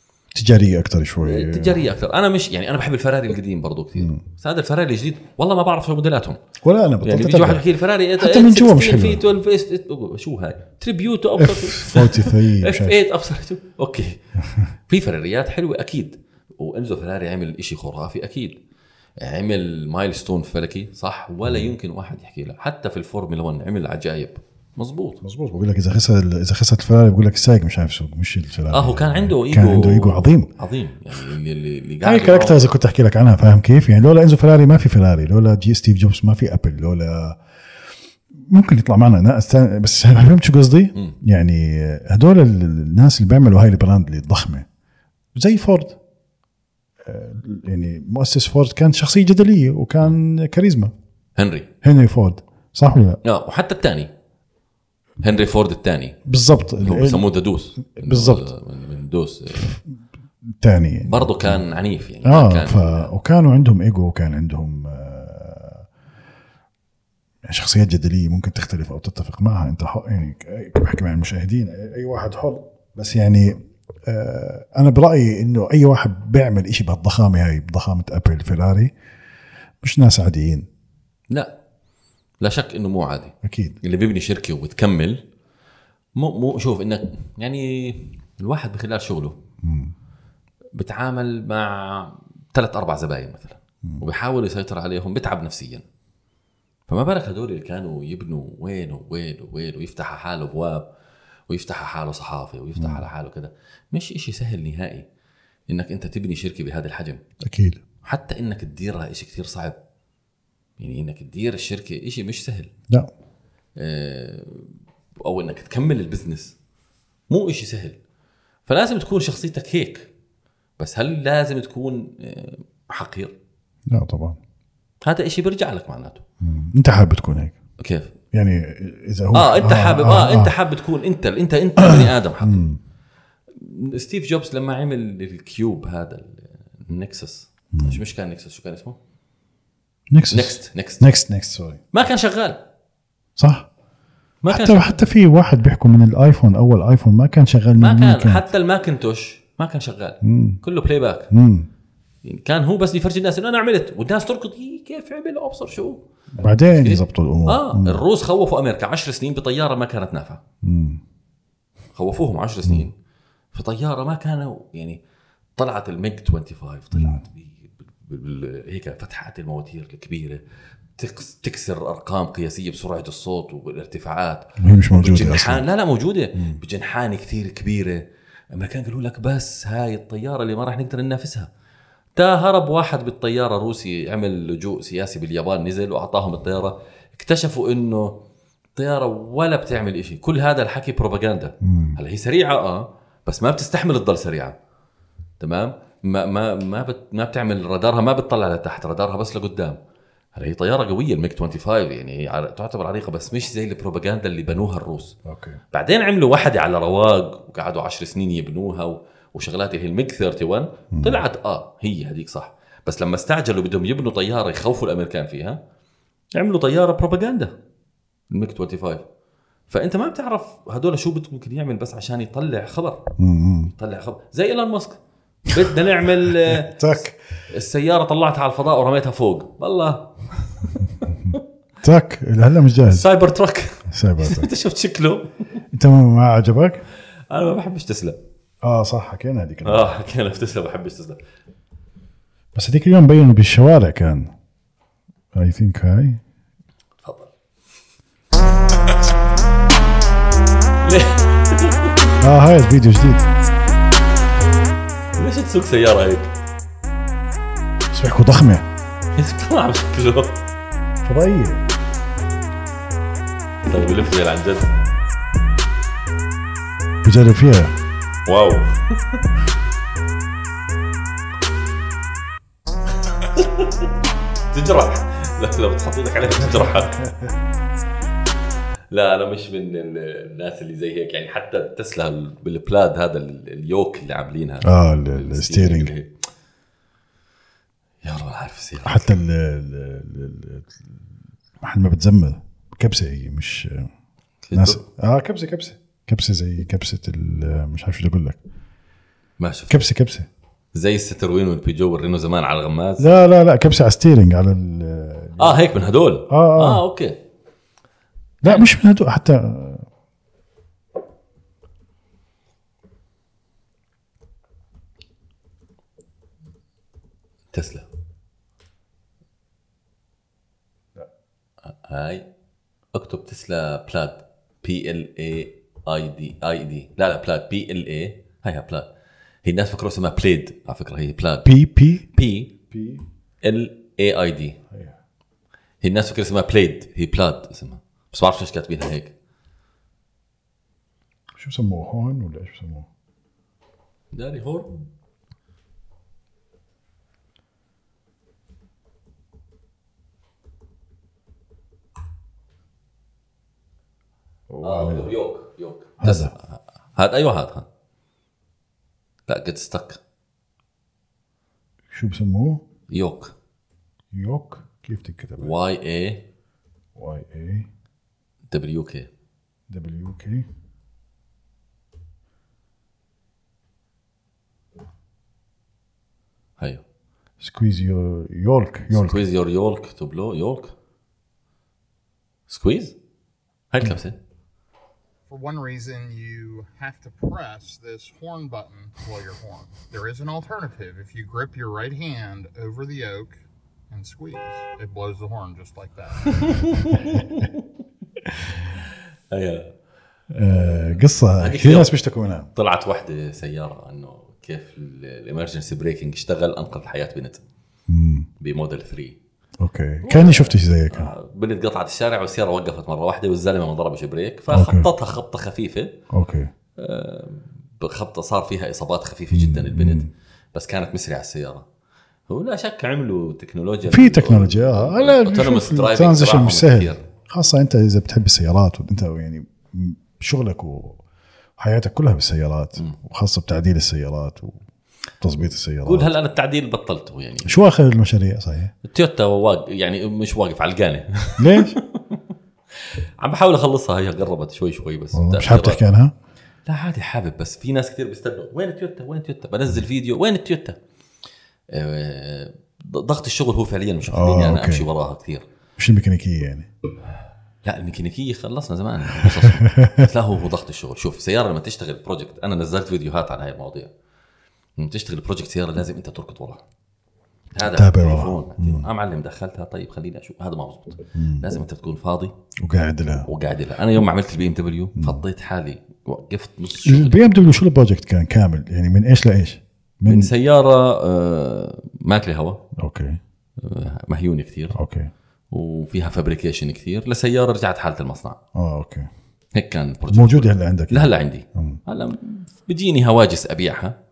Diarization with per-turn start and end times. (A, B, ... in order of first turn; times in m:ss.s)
0:00.3-0:01.8 A
0:01.2-0:06.4 B
0:04.0-0:04.2 A
0:06.6-0:07.6 A
0:07.0-0:14.2 B
0:08.2-0:09.2 A
0:11.4-0:13.0 A
0:14.9-0:18.6 B
0:19.2-0:25.2 B
0:25.2-0:30.5 A
0:28.7-0:32.7 B
0:32.0-0:37.4 A
0:38.5-0:44.7 A
0:45.4-0:46.0 A
0:47.1-0:50.9 A
0:51.4-0:51.7 B
0:51.8-0:53.2 A
0:53.2-0:54.1 B
0:55.2-0:56.2 B
0:56.3-0:57.3 A
0:56.8-0:59.8 B
0:57.8-0:58.5 A
1:00.6-1:01.6 A
1:01.1-1:03.1 B
1:02.2-1:05.9 A
1:07.4-1:18.9 A
1:19.8-1:20.7 A
1:22.4-1:25.2 B
1:23.4-1:23.8 A
1:26.2-1:29.4 B
1:29.6-1:29.9 A
1:30.8-1:35.8 B
1:36.9-1:40.9 B
1:41.5-1:45.1 B
1:42.8-1:43.0 A
1:45.7-1:47.2 B
1:47.4-1:47.8 A
1:48.0-1:49.8 B
1:50.8-1:52.7 B
1:53.8-1:56.6 B
1:57.3-1:58.0 B
1:58.7-2:00.1 B
2:00.8-2:03.4 B
2:03.9-2:04.4 A
2:05.0-2:06.2 B
2:06.4-2:07.6 A
2:07.8-2:08.1 B
2:08.3-2:10.6 A
2:09.3-2:12.7 B
2:11.8-2:12.8 A
2:13.5-2:19.0 B
2:17.7-2:18.0 A
2:20.1-2:21.8 A
2:20.3-2:21.1 B
2:21.9-2:22.6 B
2:23.4-2:23.7 A
2:24.4-2:25.1 B
2:24.5-2:28.5 A
2:27.8-2:31.3 B
2:30.2-2:30.6 A
2:31.3-2:31.7 A
2:32.2-2:36.0 B
2:36.4-2:38.0 A
2:36.7-2:40.4 B
2:40.6-2:41.0 A
2:42.0-2:42.9 B
2:43.5-2:45.0 B
2:45.6-2:50.4 B
2:46.9-2:47.2 A
2:51.0-3:01.5 B
2:54.6-2:55.6 A
3:02.2-3:08.2 B
3:08.8-3:14.6 B
3:11.6-3:12.0 A
3:15.4-3:19.8 B
3:20.4-3:25.2 B
3:25.3-3:25.6 A
3:25.7-3:35.6 B
3:30.9-3:31.2 A
3:36.3-3:37.5 B
3:38.3-3:39.0 B
3:39.7-3:43.1 B
3:43.2-3:43.7 A
3:43.7-3:45.0 B
3:45.5-3:50.1 B
3:46.5-3:47.2 A
3:51.3-3:53.1 A
3:52.9-3:55.3 B
3:53.9-3:54.5 A
3:55.7-3:56.8 A
3:57.3-3:58.2 B
3:58.6-3:59.9 A
3:59.6-4:01.2 B
4:02.6-4:04.3 A
4:05.4-4:06.2 A
4:07.0-4:07.3 B
4:10.8-4:12.0 B
4:12.2-4:13.3 A
4:15.2-4:16.3 B
4:17.9-4:18.6 A
4:19.1-4:20.4 B
4:21.0-4:21.6 A
4:23.6-4:24.7 B
4:27.0-4:27.7 A
4:28.3-4:29.2 B
4:33.1-4:33.9 B
4:34.5-4:37.0 B
4:36.4-4:37.3 A
4:38.9-4:46.1 B
4:44.6-4:45.9 A
4:48.0-4:49.1 B
4:48.8-4:50.7 A
4:51.6-4:53.9 A
4:54.4-4:54.8 B
4:54.5-4:58.4 A
4:59.4-4:59.8 B
4:59.7-5:00.3 A
5:00.7-5:03.1 B
5:03.0-5:05.6 A
5:05.4-5:07.2 B
5:06.3-5:06.8 A
5:08.4-5:08.7 B
5:08.4-5:09.9 A
5:17.5-5:17.9 B
5:21.8-5:22.3 B
5:22.9-5:28.9 B
5:29.4-5:31.5 B
5:31.4-5:32.0 A
5:32.1-5:32.5 B
5:32.7-5:33.0 A
5:33.4-5:34.6 B
5:35.8-5:39.1 B
5:41.4-5:42.9 A
5:44.1-5:44.8 B
5:54.5-5:55.2 A
5:54.6-5:57.7 B
5:56.0-5:56.3 A
5:59.3-6:00.0 B
6:01.9-6:02.6 A
6:02.9-6:03.4 B
6:04.1-6:05.5 A
6:05.4-6:06.2 B
6:07.0-6:07.7 A
6:08.5-6:09.1 B
6:09.7-6:10.5 A
6:17.4-6:19.2 A
6:18.9-6:20.7 B
6:22.5-6:23.0 B
6:23.7-6:24.2 B
6:25.3-6:36.4 C
6:36.2-6:37.6 B
6:39.3-6:39.7 B
6:40.3-6:42.5 A
6:40.4-6:42.0 B
6:42.6-6:47.4 B
6:47.9-6:48.3 A
6:48.4-6:49.2 B
6:49.6-6:51.1 A
6:50.0-6:56.0 B
6:54.5-6:54.9 A
6:56.1-6:56.5 A
6:56.8-7:01.7 B
6:59.3-7:00.1 A
7:02.3-7:07.0 B
7:03.9-7:11.0 A
7:11.6-7:14.6 A
7:15.2-7:16.1 A
7:15.8-7:17.6 B
7:17.4-7:18.7 A
7:18.8-7:22.2 B
7:21.4-7:21.8 A
7:22.8-7:25.8 B
7:25.1-7:26.1 A
7:26.7-7:30.8 B
7:31.7-7:35.4 B
7:34.1-7:34.9 A
7:35.8-7:36.7 A
7:37.6-7:43.9 B
7:39.2-7:40.1 A
7:44.8-7:46.6 B
7:47.5-7:52.3 B
7:47.6-7:48.9 A
7:51.2-7:51.5 A
7:52.6-7:53.3 A
7:53.3-7:57.2 B
7:55.0-7:55.2 A
7:56.8-8:00.3 A
8:00.1-8:02.6 B
8:02.8-8:03.2 A
8:03.6-8:04.8 B
8:04.7-8:05.1 A
8:05.5-8:08.4 B
8:08.6-8:09.1 A
8:09.5-8:14.0 B
8:10.1-8:11.8 A